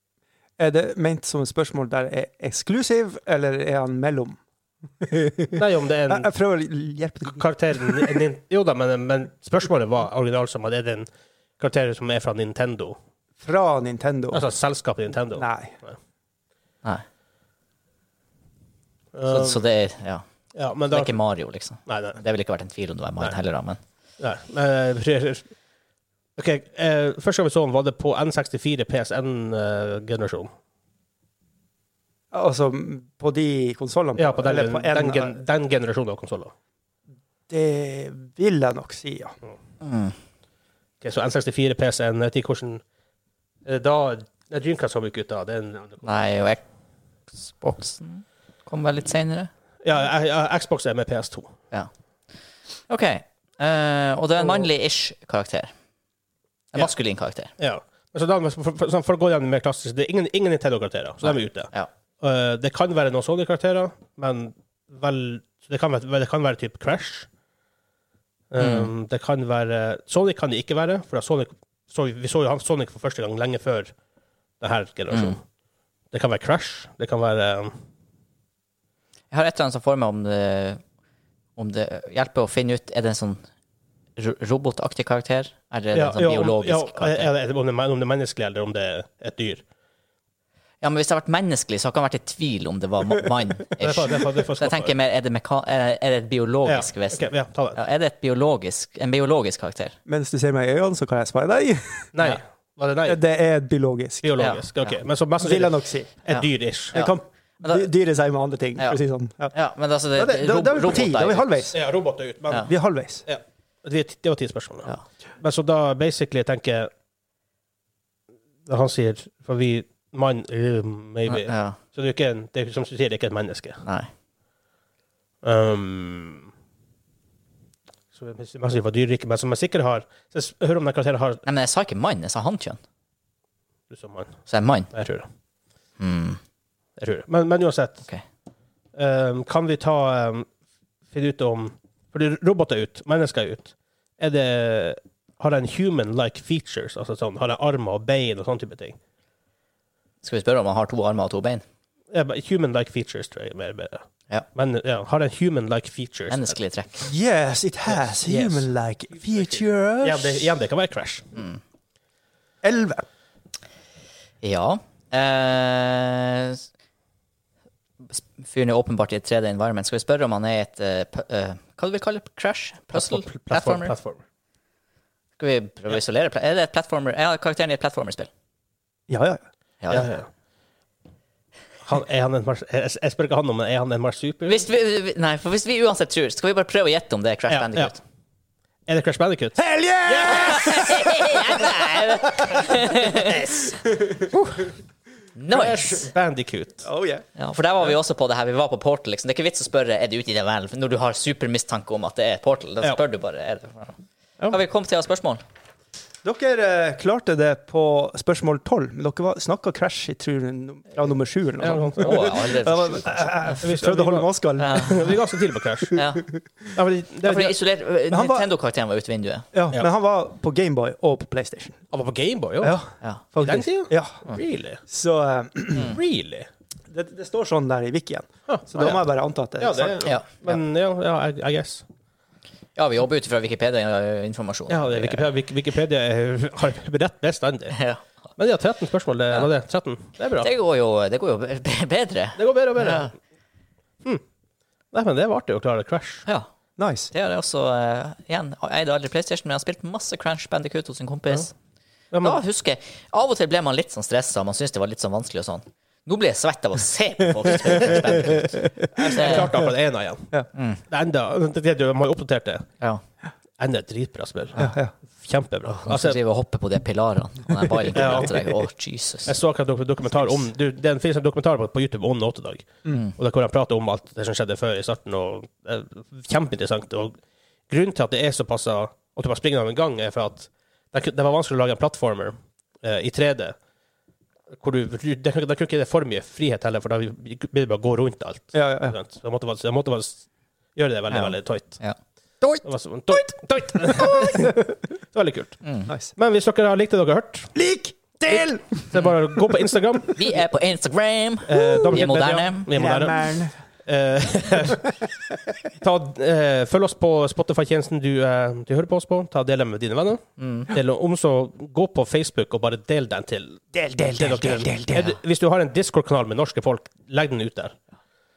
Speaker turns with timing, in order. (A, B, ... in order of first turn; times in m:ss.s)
0:00.6-0:04.4 A
0:05.0-0:08.2 A
0:05.6-0:06.3 B
0:07.3-0:13.0 B
0:13.4-0:14.5 A
0:14.3-0:16.0 B
0:15.3-0:15.7 A
0:19.1-0:19.6 B
0:19.3-0:20.2 C
0:20.5-0:21.2 B
0:20.9-0:23.8 C
0:21.8-0:22.2 B
0:24.2-0:25.5 B
0:26.4-0:30.5 B
0:32.3-0:35.4 A
0:34.2-0:36.5 B
0:37.5-0:39.3 A
0:39.8-0:40.2 C
0:41.0-0:42.8 B
0:43.6-0:46.1 B
0:46.0-0:46.6 C
0:47.3-0:49.5 C
0:49.8-0:51.5 B
0:52.9-0:55.7 C
0:54.4-0:54.7 B
0:56.7-0:57.5 C
0:57.6-1:07.3 B
1:01.2-1:01.9 C
1:08.5-1:13.9 B
1:08.6-1:08.9 C
1:14.6-1:15.4 B
1:15.1-1:15.4 C
1:16.1-1:17.7 B
1:19.3-1:20.8 C
1:21.6-1:23.4 C
1:24.2-1:27.3 C
1:25.9-1:29.6 B
1:30.8-1:40.0 C
1:33.8-1:34.9 B
1:36.6-1:37.8 B
1:40.0-1:42.1 A
1:42.1-1:43.2 B
1:43.0-1:44.3 A
1:44.2-1:47.0 B
1:44.4-1:45.0 C
1:45.4-1:46.2 A
1:46.3-1:47.9 C
1:46.9-1:49.5 A
1:49.5-1:51.7 C
1:50.1-1:51.8 A
1:51.7-1:52.7 B
1:52.6-1:53.2 A
1:53.2-1:56.9 B
1:58.7-2:03.8 B
2:01.3-2:01.8 C
2:03.8-2:04.1 C
2:05.4-2:06.5 B
2:08.1-2:11.4 B
2:11.4-2:12.8 C
2:13.9-2:14.4 B
2:14.5-2:14.9 C
2:14.9-2:15.3 B
2:16.0-2:16.4 C
2:17.0-2:18.0 B
2:19.0-2:20.5 B
2:21.1-2:29.0 B
2:30.2-2:31.6 C
2:32.1-2:34.0 B
2:34.5-2:36.6 B
2:36.3-2:37.1 C
2:37.0-2:40.5 A
2:38.2-2:38.7 B
2:39.4-2:41.3 B
2:41.3-2:41.6 C
2:42.6-2:43.0 A
2:44.4-2:46.6 C
2:48.0-2:54.0 C
2:52.9-2:54.2 B
2:55.4-2:58.3 C
2:59.1-2:59.4 A
2:59.8-3:00.1 C
2:59.9-3:00.3 B
3:01.8-3:04.6 B
3:04.4-3:08.0 C
3:07.5-3:07.9 B
3:08.9-3:10.8 B
3:09.6-3:12.5 A
3:10.2-3:13.7 C
3:13.1-3:14.3 A
3:14.3-3:14.6 B
3:15.4-3:16.1 C
3:15.5-3:16.8 B
3:16.8-3:17.2 A
3:17.4-3:25.4 C
3:26.2-3:34.9 A
3:31.6-3:32.5 B
3:32.0-3:33.6 C
3:33.6-3:36.0 B
3:34.6-3:35.1 C
3:36.0-3:36.2 C
3:36.7-3:37.6 B
3:37.2-3:39.5 C
3:38.1-3:38.5 A
3:39.5-3:41.8 A
3:41.9-3:42.8 B
3:42.6-3:44.2 A
3:43.4-3:44.8 B
3:44.9-3:46.0 A
3:45.7-3:46.5 B
3:46.9-3:50.1 A
3:48.5-3:49.0 B
3:49.6-3:51.8 B
3:50.0-3:50.6 C
3:52.8-3:55.3 C
3:54.7-3:57.8 B
3:57.7-3:58.0 C
3:58.4-4:00.5 B
4:00.4-4:03.1 C
4:02.4-4:03.1 B
4:04.9-4:06.2 B
4:06.8-4:07.1 A
4:07.1-4:11.5 C
4:12.1-4:12.4 B
4:12.2-4:19.5 C
4:19.0-4:20.3 B
4:20.5-4:20.8 C
4:20.9-4:22.7 B
4:23.6-4:26.2 B
4:24.6-4:24.9 A
4:25.7-4:29.3 C
4:27.9-4:28.6 B
4:29.2-4:37.2 B
4:32.9-4:33.1 C
4:37.7-4:43.6 B
4:44.6-4:51.8 B
4:48.5-4:49.0 A
4:51.1-4:52.0 C
4:52.4-4:53.2 A
4:52.6-4:54.6 B
4:53.9-4:54.6 A
4:55.1-4:57.5 B
4:55.6-4:55.9 C
4:55.9-4:56.1 A
4:57.5-4:59.0 A
4:58.3-5:00.3 B
5:00.2-5:02.7 C
5:01.5-5:04.9 B
5:01.6-5:02.1 A
5:02.7-5:03.6 A
5:05.8-5:17.8 B
5:10.4-5:10.7 C
5:13.7-5:15.1 A